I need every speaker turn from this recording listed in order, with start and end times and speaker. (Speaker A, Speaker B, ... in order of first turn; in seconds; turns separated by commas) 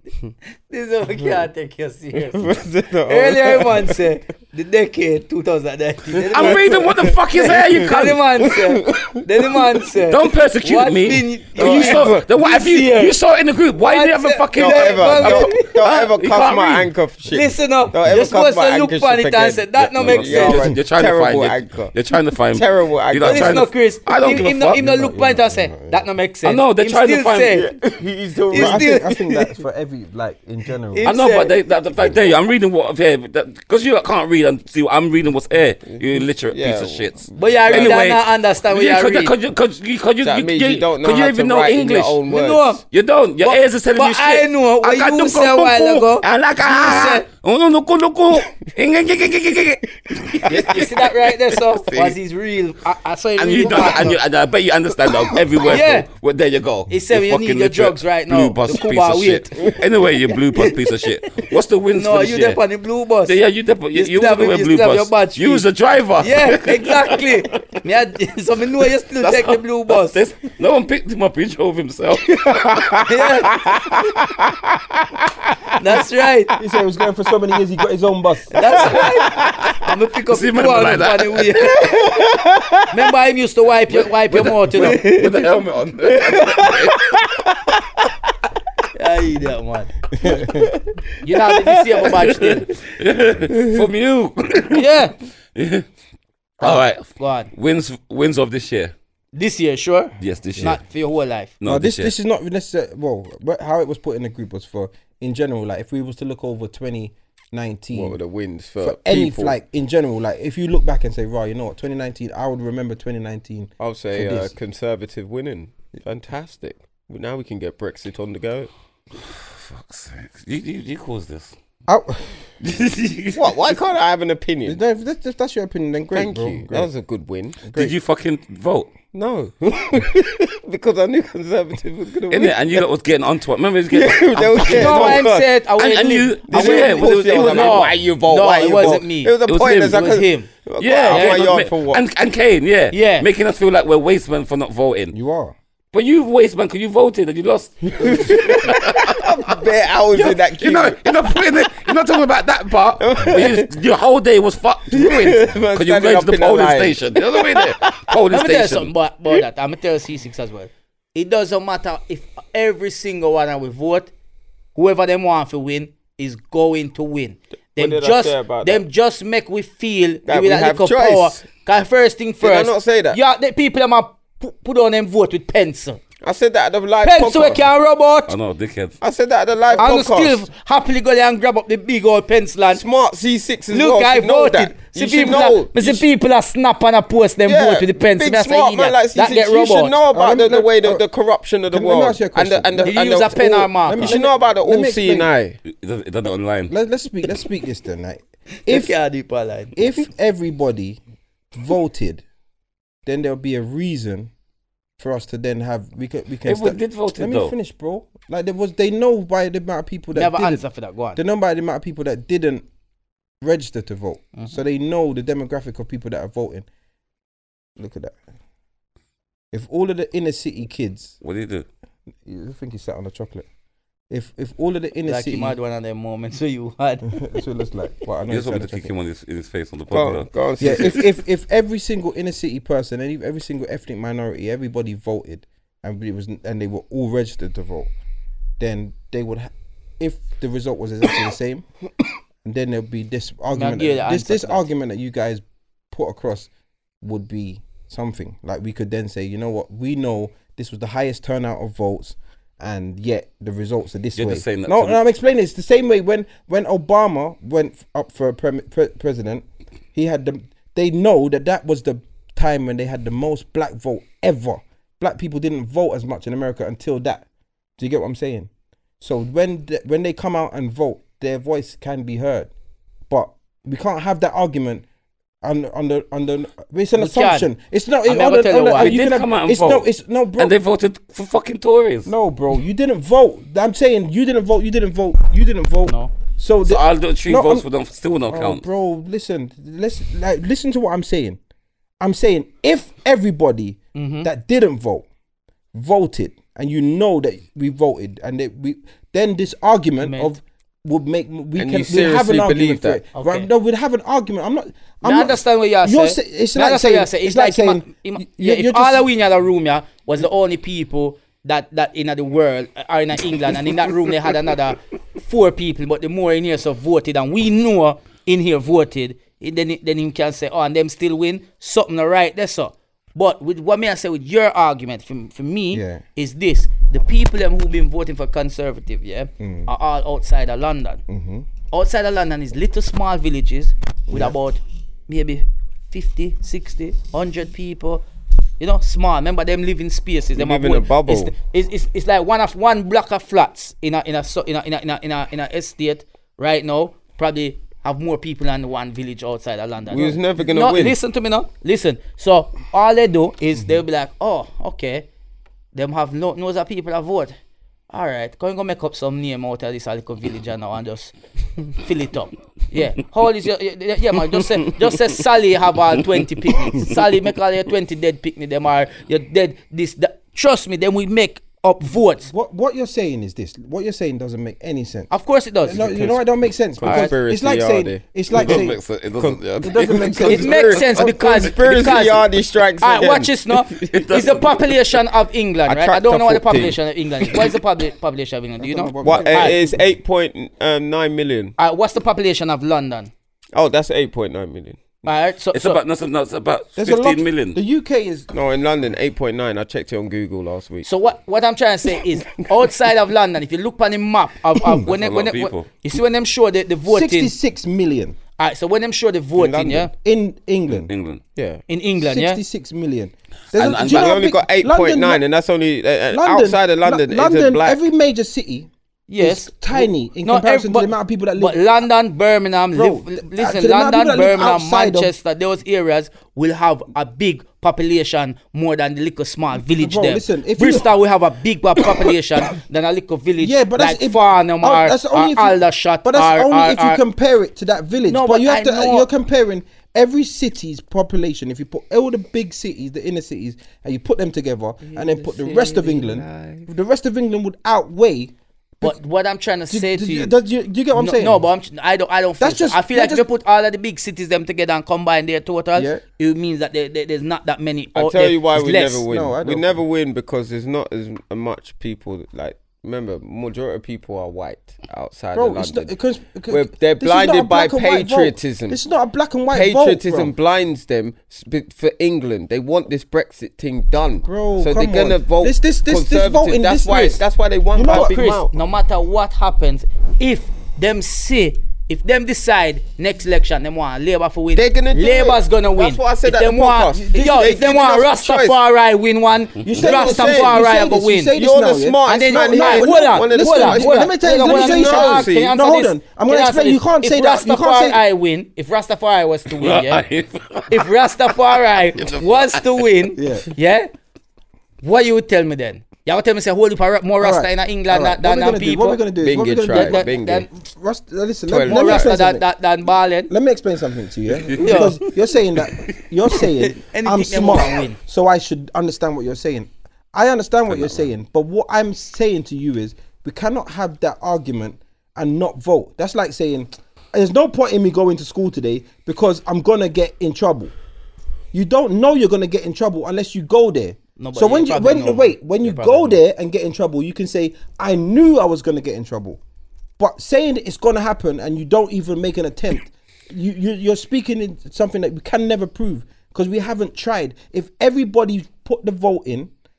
Speaker A: 0.7-13.2, Speaker B: 2.2-4.0, Speaker B: 6.2-9.6, Speaker C: 6.3-8.2, Speaker C: 10.1-16.9, Speaker B: 11.6-12.3, Speaker A: 13.8-15.8, Speaker B: 14.5-21.9, Speaker A: 17.3-20.7, Speaker C: 19.8-24.8, Speaker B: 22.5-23.7, Speaker A: 23.2-27.7, Speaker D: 24.3-26.0, Speaker C: 26.4-27.6, Speaker B: 27.5-29.5, Speaker A: 28.5-29.1, Speaker D: 28.5-31.1, Speaker A: 30.9-31.5, Speaker C: 31.0-42.2, Speaker B: 35.9-38.0, Speaker A: 37.3-39.3, Speaker B: 40.2-42.7, Speaker A: 42.3-42.8, Speaker C: 42.9-50.9, Speaker A: 43.4-47.2, Speaker B: 50.4-51.0, Speaker A: 50.5-54.2, Speaker C: 51.8-52.1, Speaker C: 53.4-62.6, Speaker A: 55.7-56.1, Speaker A: 56.9-59.8, Speaker A: 61.4-63.4, Speaker C: 63.2-67.6, Speaker A: 63.9-65.6, Speaker A: 66.2-70.2, Speaker C: 69.2-73.1, Speaker B: 72.3-74.7, Speaker A: 73.0-73.6, Speaker A: 75.8-76.5, Speaker D: 76.6-78.6, Speaker A: 78.5-82.1, Speaker B: 78.8-79.5, Speaker C: 80.3-81.9, Speaker B: 81.7-83.0, Speaker A: 82.9-85.3, Speaker C: 83.9-87.1, Speaker B: 86.2-87.2, Speaker A: 88.9-89.9, Speaker D: 90.2-90.7, Speaker B: 90.3-92.0, Speaker A: 91.2-92.7, Speaker C: 92.1-94.9, Speaker A: 94.7-95.1, Speaker C: 95.5-95.8, Speaker C: 96.6-98.9, Speaker A: 97.2-97.5, Speaker A: 99.3-101.5, Speaker C: 100.2-100.8, Speaker C: 101.6-102.1, Speaker D: 101.6-108.2, Speaker B: 107.9-109.5, Speaker D: 108.8-114.5, Speaker B: 113.8-118.7, Speaker C: 119.2-121.5, Speaker D: 121.9-122.3, Speaker C: 122.6-123.4, Speaker B: 123.3-124.8, Speaker D: 124.7-126.9, Speaker B: 126.1-127.6, Speaker D: 127.6-127.9, Speaker C: 127.7-128.9, Speaker B: 129.1-132.8, Speaker C: 132.3-138.0, Speaker B: 133.9-135.5, Speaker A: 134.6-140.5, Speaker B: 136.5-142.0, Speaker C: 139.4-140.1, Speaker C: 140.8-145.1, Speaker A: 141.1-141.4, Speaker A: 142.9-143.2, Speaker D: 145.1-145.5, Speaker C: 145.9-149.6, Speaker B: 147.9-151.0, Speaker C: 150.1-158.9, Speaker B: 153.0-153.7, Speaker B: 154.9-158.0, Speaker A: 158.3-164.1, Speaker A: 164.7-176.0, Speaker B: 167.8-168.8, Speaker B: 170.2-171.4, Speaker B: 172.4-173.2, Speaker B: 176.2-177.7, Speaker A: 177.0-178.3, Speaker C: 178.3-179.0, Speaker B: 179.0-180.4, Speaker A: 179.7-182.8, Speaker B: 182.7-186.1, Speaker A: 183.7-189.9, Speaker B: 187.4-195.6, Speaker D: 190.1-191.0, Speaker D: 191.7-195.3, Speaker A: 192.8-194.2, Speaker C: 195.7-196.7, Speaker D: 196.7-198.9, Speaker A: 198.7-199.8, Speaker D: 199.8-201.0, Speaker D: 201.5-202.2, Speaker D: 203.1-204.3, Speaker D: 205.0-210.6, Speaker C: 206.4-207.5, Speaker A: 210.1-211.2, Speaker D: 211.1-212.6, Speaker D: 213.4-216.7, Speaker D: 217.8-218.2, Speaker D: 219.5-221.2, Speaker C: 221.2-221.7, Speaker D: 222.2-223.4, Speaker D: 224.1-225.6, Speaker A: 225.1-227.2, Speaker D: 227.1-228.9, Speaker C: 228.3-231.0, Speaker B: 229.9-231.1, Speaker D: 230.6-237.9, Speaker D: 238.6-241.7, Speaker D: 242.4-246.5, Speaker A: 243.5-244.7, Speaker D: 247.0-267.2, Speaker C: 254.2-255.0, Speaker D: 267.8-268.5, Speaker D: 269.0-272.5, Speaker D: 273.1-274.8, Speaker D: 275.4-280.5, Speaker A: 276.9-277.5, Speaker A: 278.1-278.9, Speaker C: 278.8-279.8, Speaker C: 280.4-282.1, Speaker D: 282.1-287.6, Speaker A: 285.9-286.1, Speaker C: 286.6-288.6, Speaker D: 288.3-291.4, Speaker D: 292.0-295.1, Speaker A: 293.9-294.3, Speaker D: 295.7-309.1, Speaker A: 300.0-300.3, Speaker B: 301.6-303.0, Speaker A: 303.1-303.5, Speaker A: 305.0-331.0, Speaker D: 325.7-326.0, Speaker D: 329.4-329.7, Speaker D: 331.1-331.5, Speaker A: 331.7-338.0, Speaker D: 334.1-334.3, Speaker A: 338.6-355.1, Speaker B: 340.3-341.3, Speaker B: 349.9-350.9, Speaker D: 353.5-353.8, Speaker A: 355.7-357.4, Speaker A: 357.9-361.1, Speaker A: 361.7-372.3, Speaker D: 372.3-375.1, Speaker A: 375.1-375.8, Speaker D: 375.6-378.8, Speaker B: 375.7-376.2, Speaker B: 376.8-378.6, Speaker A: 376.8-377.1, Speaker C: 378.3-380.6, Speaker B: 379.2-384.0, Speaker D: 379.6-381.5, Speaker A: 380.2-382.2, Speaker A: 382.8-389.6, Speaker C: 383.8-384.8, Speaker B: 385.6-386.8, Speaker D: 388.6-389.9, Speaker B: 389.0-391.5, Speaker A: 391.6-393.1, Speaker B: 393.5-394.9, Speaker A: 395.0-395.8, Speaker C: 395.5-397.6, Speaker D: 396.8-398.3, Speaker B: 398.3-400.9, Speaker A: 400.8-407.3, Speaker C: 404.9-405.7, Speaker D: 406.9-408.2, Speaker A: 408.4-409.9, Speaker B: 409.4-409.9, Speaker D: 409.9-410.9, Speaker C: 410.9-411.2, Speaker B: 411.4-411.6, Speaker A: 411.7-412.4, Speaker D: 412.0-415.2, Speaker C: 413.5-414.2, Speaker B: 413.8-417.8, Speaker D: 416.1-418.7, Speaker A: 419.1-437.0, Speaker D: 419.2-421.7, Speaker D: 422.7-425.1, Speaker D: 429.7-430.9, Speaker D: 433.4-448.9, Speaker A: 438.1-439.1, Speaker B: 444.9-446.7, Speaker A: 448.8-450.3, Speaker D: 449.7-451.4, Speaker A: 450.9-459.0, Speaker D: 452.4-453.2, Speaker D: 455.7-456.0, Speaker B: 457.9-465.9, Speaker D: 459.1-459.8, Speaker D: 465.3-470.3, Speaker B: 466.5-468.8, Speaker B: 469.5-478.5, Speaker D: 474.2-477.2, Speaker D: 477.7-478.2, Speaker A: 477.9-491.3, Speaker B: 484.5-488.6, Speaker D: 487.0-487.6, Speaker D: 489.6-498.0, Speaker B: 489.7-490.6, Speaker B: 491.3-495.5, Speaker A: 492.1-500.0, Speaker C: 499.6-500.9, Speaker A: 500.7-503.9, Speaker C: 501.9-502.9, Speaker D: 503.1-503.5, Speaker A: 504.8-509.0, Speaker D: 507.2-510.1, Speaker B: 509.2-510.5, Speaker A: 509.7-510.5, Speaker D: 510.6-512.4, Speaker B: 511.5-512.1, Speaker A: 511.6-513.3, Speaker D: 513.3-530.7, Speaker A: 514.6-515.0, Speaker A: 516.6-518.0, Speaker D: 531.5-539.4, Speaker A: 534.2-536.2, Speaker D: 540.0-549.5